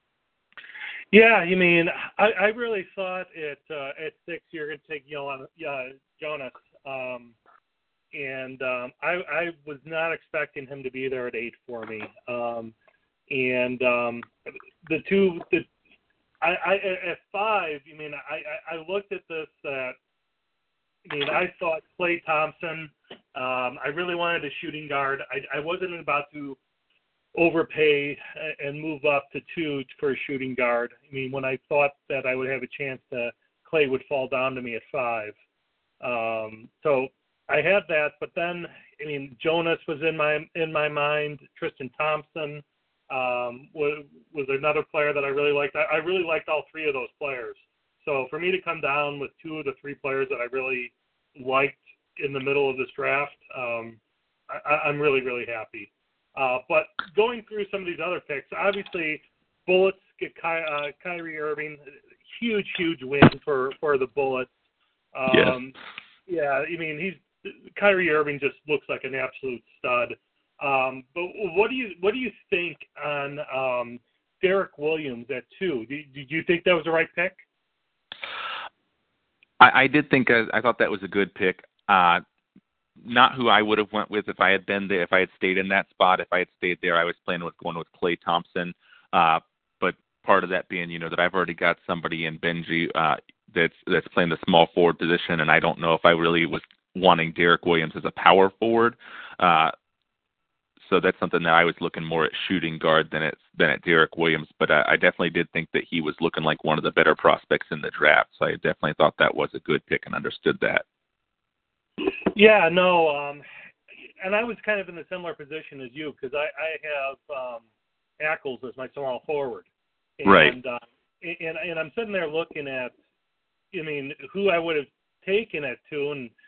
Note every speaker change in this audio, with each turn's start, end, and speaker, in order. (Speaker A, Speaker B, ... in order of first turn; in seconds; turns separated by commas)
Speaker A: 1.1-7.3, Speaker A: 8.1-12.7, Speaker A: 13.3-14.3, Speaker A: 14.8-15.7, Speaker A: 16.4-19.9, Speaker A: 21.1-26.6, Speaker A: 27.3-35.3, Speaker A: 36.0-54.0, Speaker A: 54.5-64.5, Speaker A: 65.1-65.8, Speaker B: 65.3-65.6, Speaker A: 66.3-77.4, Speaker B: 79.6-82.2, Speaker B: 83.0-99.7, Speaker B: 100.8-110.8, Speaker A: 112.3-113.4, Speaker A: 114.2-117.6, Speaker A: 118.2-119.7, Speaker A: 120.2-122.9, Speaker B: 120.2-120.5, Speaker A: 123.7-126.3